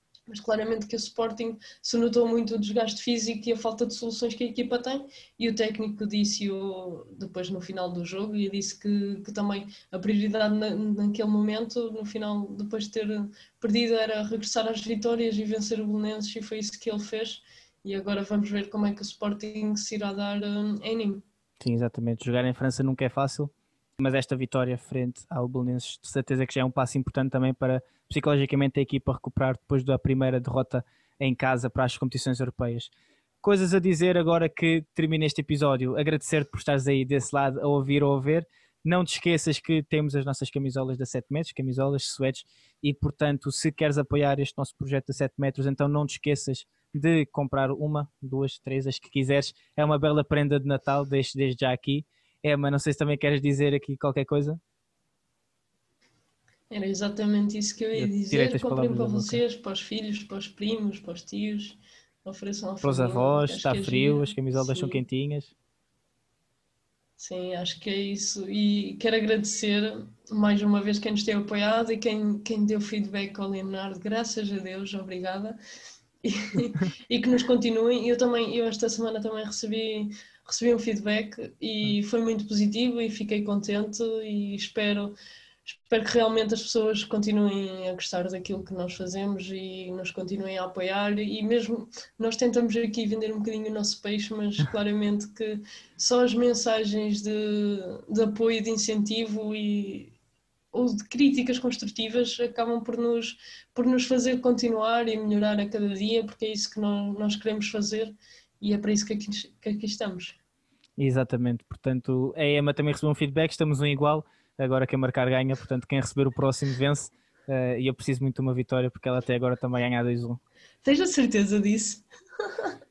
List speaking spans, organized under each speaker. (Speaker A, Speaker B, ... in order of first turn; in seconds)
Speaker A: 0.3-21.2, 56.7-65.0, 67.2-75.6, 76.2-85.1, 85.7-100.2, 100.7-110.4, 120.8-122.7
Speaker B: 21.6-32.9, 33.4-54.6, 58.0-59.4, 62.8-65.5, 111.0-120.4